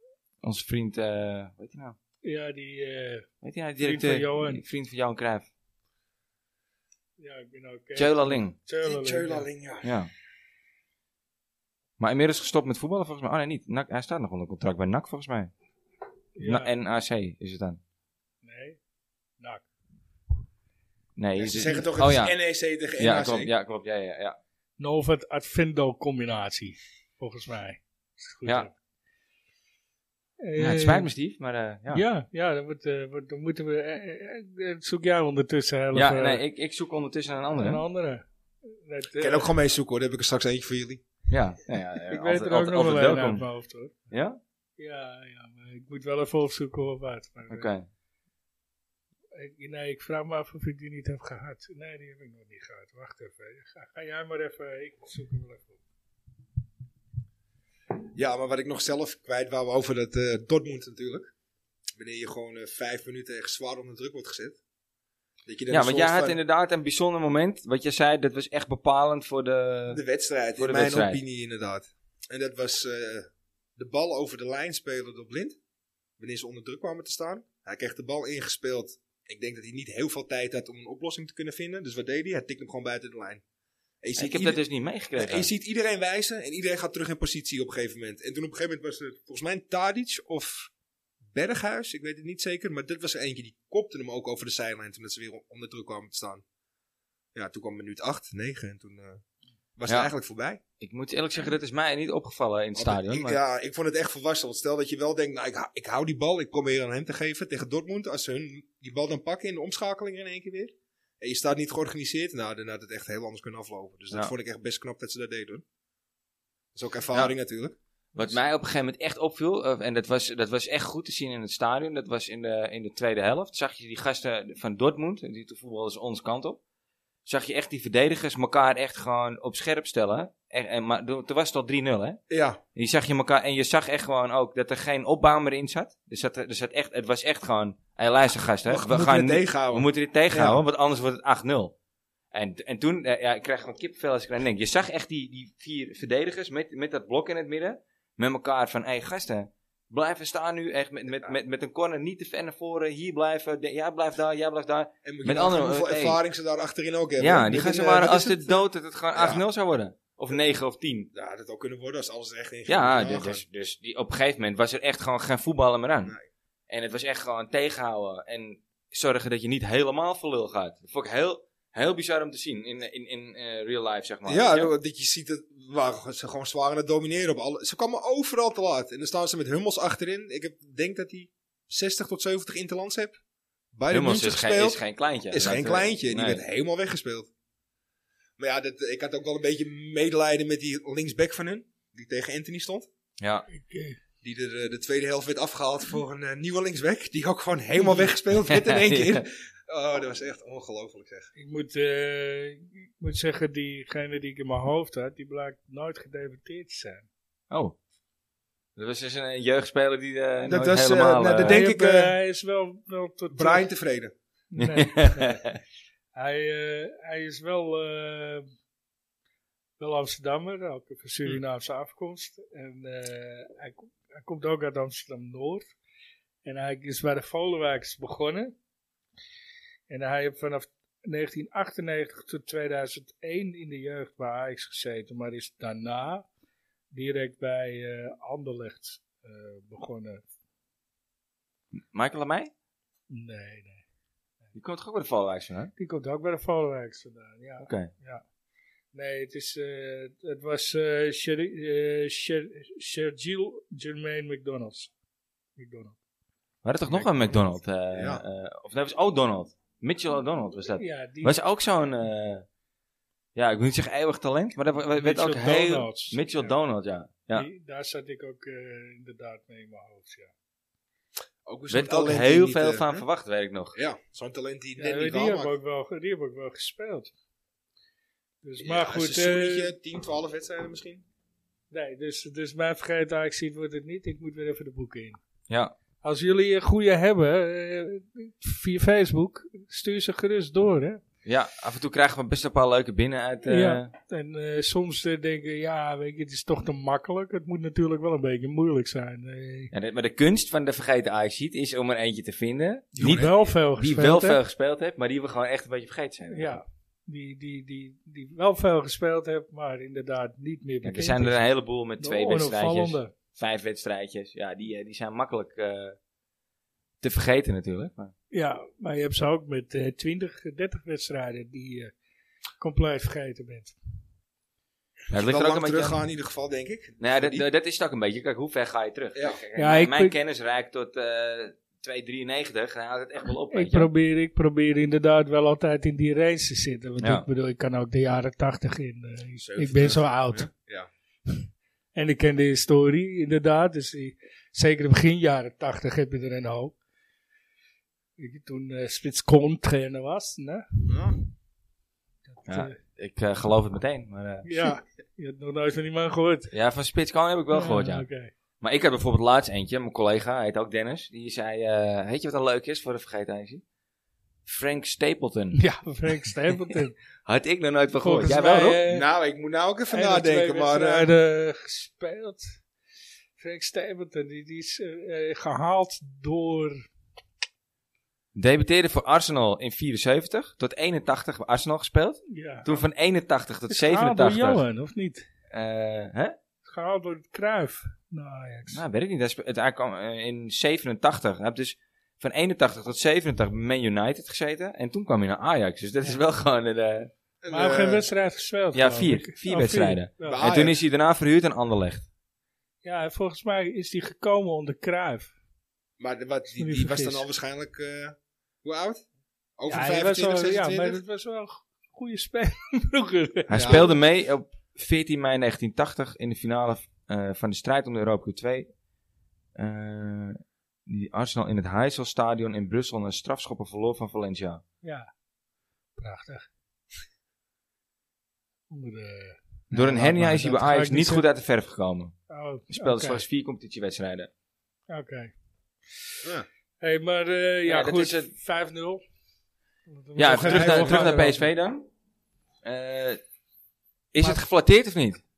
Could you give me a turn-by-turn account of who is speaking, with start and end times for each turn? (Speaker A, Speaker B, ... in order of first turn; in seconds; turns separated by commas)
Speaker A: 0.4-2.0, Speaker B: 2.2-4.6, Speaker A: 3.4-5.5, Speaker B: 7.2-9.5, Speaker A: 8.0-8.6, Speaker C: 8.8-9.9, Speaker A: 9.8-10.1, Speaker A: 12.0-15.5, Speaker B: 16.4-16.7, Speaker A: 16.4-17.8, Speaker B: 18.4-18.8, Speaker A: 21.2-22.4, Speaker C: 21.4-23.5, Speaker A: 23.0-24.4, Speaker B: 24.8-28.7, Speaker B: 30.4-31.1, Speaker A: 30.6-32.0, Speaker B: 31.9-36.4, Speaker A: 35.9-37.8, Speaker B: 37.5-39.5, Speaker C: 39.2-41.0, Speaker A: 41.3-43.4, Speaker B: 42.1-44.0, Speaker A: 44.1-44.4, Speaker B: 44.8-47.7, Speaker A: 47.5-47.9, Speaker B: 49.3-55.8, Speaker C: 58.1-61.3, Speaker C: 62.0-64.6, Speaker C: 65.5-66.4, Speaker A: 65.7-70.0, Speaker C: 69.9-75.6, Speaker A: 70.6-71.2, Speaker C: 76.2-83.4, Speaker C: 84.0-84.6, Speaker A: 84.2-85.5, Speaker C: 85.2-90.7, Speaker C: 91.3-96.4, Speaker C: 97.3-99.2, Speaker C: 99.8-100.6, Speaker A: 100.8-103.4, Speaker C: 102.8-115.6, Speaker C: 116.8-117.8, Speaker A: 118.2-126.6, Speaker A: 127.3-132.2, Speaker C: 132.3-132.6, Speaker A: 132.8-141.7, Speaker C: 138.7-140.6, Speaker A: 142.3-156.2, Speaker C: 155.0-159.4, Speaker A: 157.2-161.1, Speaker C: 161.1-163.4, Speaker A: 162.7-166.2, Speaker A: 166.7-174.7, Speaker C: 174.3-183.2, Speaker C: 183.7-187.3, Speaker A: 183.9-186.4, Speaker C: 188.4-192.9, Speaker A: 193.2-193.5, Speaker B: 193.5-194.0, Speaker C: 194.2-201.3, Speaker A: 198.5-199.2, Speaker B: 201.4-207.1, Speaker A: 207.5-207.8, Speaker A: 208.8-211.6, Speaker C: 210.5-212.1, Speaker B: 211.4-213.7, Speaker C: 213.3-214.1, Speaker B: 214.5-215.4, Speaker A: 214.6-215.6, Speaker B: 216.2-218.5, Speaker B: 219.8-225.7, Speaker B: 226.4-228.6, Speaker B: 229.9-236.2, Speaker B: 236.9-240.2, Speaker A: 241.9-242.5, Speaker B: 243.1-243.8, Speaker A: 244.6-245.7, Speaker B: 245.8-248.2, Speaker A: 247.6-247.9, Speaker B: 248.9-254.9, Speaker B: 255.6-256.0, Speaker A: 256.6-262.5, Speaker C: 256.9-257.4, Speaker C: 257.9-258.2, Speaker B: 260.8-261.4, Speaker A: 263.4-267.5, Speaker B: 265.0-266.5, Speaker B: 267.4-270.3, Speaker C: 271.4-273.1, Speaker A: 271.7-273.8, Speaker C: 273.8-275.5, Speaker B: 274.8-277.1, Speaker B: 278.4-279.7, Speaker C: 278.6-281.0, Speaker B: 281.7-285.2, Speaker A: 285.5-285.8, Speaker B: 286.0-291.0, Speaker A: 291.2-293.9, Speaker B: 293.5-299.7, Speaker A: 299.7-306.6, Speaker C: 303.0-303.3, Speaker B: 303.0-304.4, Speaker B: 306.3-311.4, Speaker A: 310.8-316.0, Speaker B: 312.0-313.1, Speaker A: 317.0-318.1, Speaker B: 318.3-321.9, Speaker B: 322.6-323.8, Speaker A: 325.1-326.0, Speaker C: 325.1-327.4, Speaker A: 327.0-333.9, Speaker B: 329.6-330.1, Speaker B: 333.5-340.5, Speaker A: 337.0-337.2, Speaker C: 339.4-340.9, Speaker B: 341.9-346.8, Speaker B: 348.2-351.0, Speaker C: 350.9-351.2, Speaker B: 352.3-352.8, Speaker A: 352.5-354.5, Speaker B: 354.4-356.5, Speaker A: 356.5-358.1, Speaker B: 357.5-358.3, Speaker A: 358.6-363.6, Speaker A: 364.5-365.6, Speaker B: 365.6-367.0, Speaker A: 367.2-368.8, Speaker B: 368.0-369.1, Speaker C: 368.9-371.1, Speaker B: 369.9-372.6, Speaker B: 373.4-376.9, Speaker A: 378.4-384.6, Speaker B: 382.3-382.8, Speaker B: 383.7-385.3, Speaker A: 385.5-386.4, Speaker B: 386.6-388.8, Speaker A: 388.7-397.1, Speaker C: 397.4-398.1, Speaker B: 397.5-400.4, Speaker A: 398.7-402.1, Speaker C: 400.2-400.8, Speaker B: 402.8-405.3, Speaker C: 406.0-409.0, Speaker B: 406.6-407.2, Speaker C: 409.6-411.0, Speaker B: 409.7-413.9, Speaker A: 413.5-418.7, Speaker C: 413.5-413.9, Speaker A: 419.6-424.6, Speaker B: 424.8-425.1, Speaker B: 426.0-426.5, Speaker B: 428.7-431.2, Speaker A: 429.7-432.1, Speaker B: 432.3-433.2, Speaker A: 432.7-434.3, Speaker B: 434.9-435.3, Speaker B: 436.0-436.3, Speaker B: 436.8-439.0, Speaker A: 437.7-438.3, Speaker B: 439.9-441.5, Speaker A: 440.2-441.9, Speaker C: 440.4-441.1, Speaker A: 442.6-443.2, Speaker A: 444.1-445.2